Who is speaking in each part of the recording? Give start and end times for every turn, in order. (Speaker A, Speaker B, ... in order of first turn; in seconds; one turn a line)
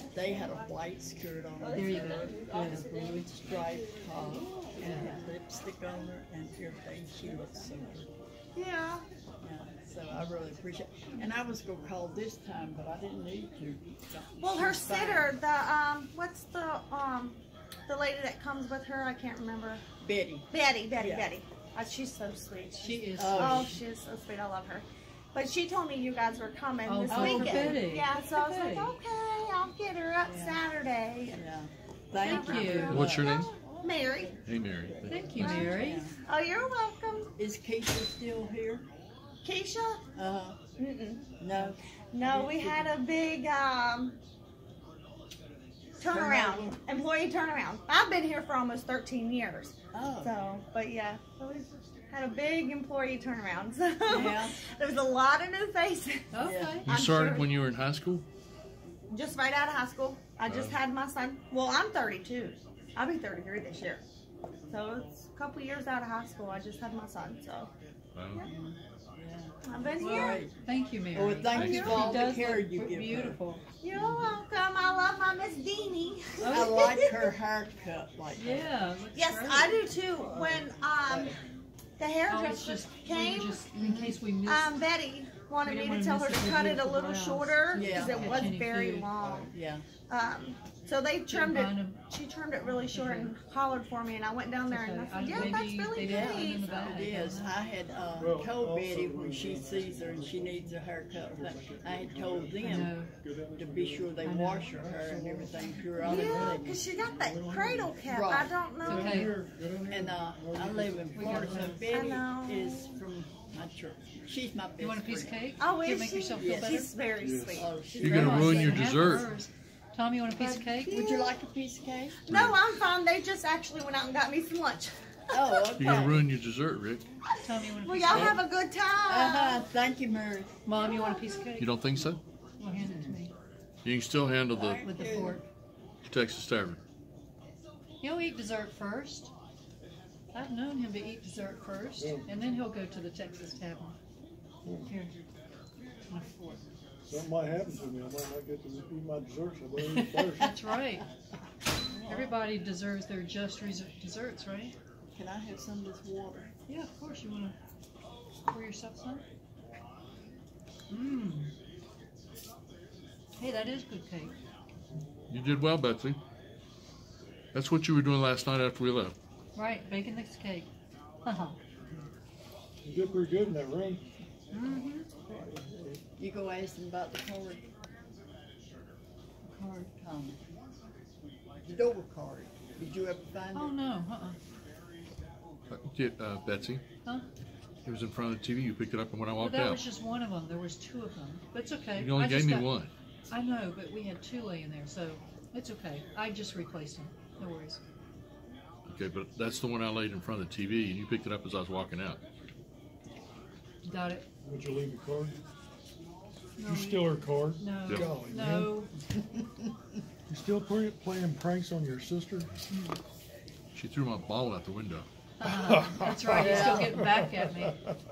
Speaker A: 0.1-8.1
Speaker B: 1.7-3.3
Speaker B: 4.8-5.2
Speaker C: 8.5-9.0
Speaker A: 9.4-15.3
Speaker C: 14.4-19.8
Speaker A: 20.0-21.3
Speaker C: 20.5-31.4
Speaker B: 22.8-23.8
Speaker A: 23.2-23.8
Speaker B: 26.9-29.0
Speaker A: 27.1-27.8
Speaker A: 30.2-30.6
Speaker A: 31.3-33.5
Speaker C: 32.2-34.4
Speaker B: 32.2-33.1
Speaker D: 32.9-33.5
Speaker D: 34.4-35.2
Speaker A: 34.8-36.1
Speaker B: 35.0-36.1
Speaker C: 35.3-37.3
Speaker A: 37.4-38.9
Speaker C: 39.4-40.0
Speaker A: 40.1-40.6
Speaker C: 40.8-41.3
Speaker A: 41.4-42.9
Speaker C: 42.1-44.1
Speaker C: 46.0-56.3
Speaker A: 46.0-46.8
Speaker A: 49.9-50.3
Speaker A: 54.0-54.6
Speaker B: 56.3-56.9
Speaker A: 56.4-56.8
Speaker C: 56.8-57.5
Speaker D: 56.9-58.2
Speaker C: 59.1-64.0
Speaker D: 60.5-60.8
Speaker C: 64.7-67.7
Speaker D: 68.1-68.5
Speaker A: 68.4-70.5
Speaker C: 69.7-70.4
Speaker B: 70.0-73.6
Speaker A: 71.1-73.4
Speaker D: 71.5-72.2
Speaker C: 73.8-77.2
Speaker A: 73.9-74.3
Speaker B: 76.4-77.0
Speaker A: 76.5-78.7
Speaker B: 78.3-79.8
Speaker C: 79.1-81.4
Speaker C: 82.0-83.6
Speaker B: 82.3-84.8
Speaker A: 83.7-84.2
Speaker C: 84.4-89.5
Speaker B: 85.6-89.1
Speaker A: 87.7-88.5
Speaker E: 89.2-89.5
Speaker A: 89.4-89.8
Speaker C: 90.1-97.1
Speaker B: 91.3-92.0
Speaker B: 92.5-93.3
Speaker B: 94.7-97.6
Speaker A: 95.3-103.0
Speaker E: 98.2-111.9
Speaker B: 102.6-103.1
Speaker A: 103.5-106.8
Speaker B: 104.2-104.7
Speaker C: 106.0-109.3
Speaker A: 108.1-108.5
Speaker B: 108.8-109.3
Speaker A: 109.9-115.4
Speaker B: 111.1-111.9
Speaker C: 111.4-113.0
Speaker B: 114.8-116.9
Speaker C: 115.6-117.7
Speaker A: 116.3-116.8
Speaker E: 117.2-118.3
Speaker A: 117.5-119.2
Speaker D: 118.0-119.3
Speaker B: 118.0-121.1
Speaker C: 120.4-121.2
Speaker A: 120.8-122.2
Speaker C: 122.2-126.0
Speaker D: 122.3-122.6
Speaker A: 125.3-126.3
Speaker D: 125.8-127.0
Speaker B: 127.4-128.4
Speaker C: 127.8-129.6
Speaker A: 129.1-130.5
Speaker B: 130.6-131.7
Speaker C: 130.8-131.5
Speaker D: 131.6-132.2
Speaker B: 132.6-133.3
Speaker D: 133.8-134.8
Speaker A: 134.5-135.4
Speaker B: 134.8-135.4
Speaker D: 136.0-136.8
Speaker B: 138.0-139.3
Speaker B: 140.3-143.9
Speaker E: 142.0-142.2
Speaker E: 144.6-144.9
Speaker B: 144.8-145.2
Speaker B: 146.1-146.6
Speaker E: 147.0-150.5
Speaker B: 149.9-151.1
Speaker A: 151.9-152.3
Speaker B: 152.1-154.7
Speaker A: 155.1-156.5
Speaker B: 156.7-157.6
Speaker B: 158.5-159.2
Speaker B: 160.9-161.5
Speaker B: 163.3-164.3
Speaker D: 165.3-166.2
Speaker D: 167.5-169.1
Speaker B: 169.5-170.7
Speaker B: 171.2-171.6
Speaker E: 172.8-174.1
Speaker B: 174.5-175.1
Speaker E: 175.2-176.0
Speaker A: 176.2-177.7
Speaker B: 179.4-179.9
Speaker A: 179.8-180.4
Speaker A: 181.6-183.8
Speaker B: 183.5-184.4
Speaker D: 185.7-186.8
Speaker D: 187.8-189.8
Speaker B: 189.3-192.7
Speaker D: 191.9-192.9
Speaker B: 193.3-197.8
Speaker D: 198.9-202.2
Speaker B: 203.8-204.3
Speaker E: 204.4-205.4
Speaker B: 206.6-208.9
Speaker E: 206.6-208.8
Speaker D: 207.9-208.1
Speaker E: 210.3-212.5
Speaker B: 212.7-213.0
Speaker D: 213.7-215.1
Speaker B: 215.4-217.8
Speaker E: 215.4-217.9
Speaker A: 216.4-217.0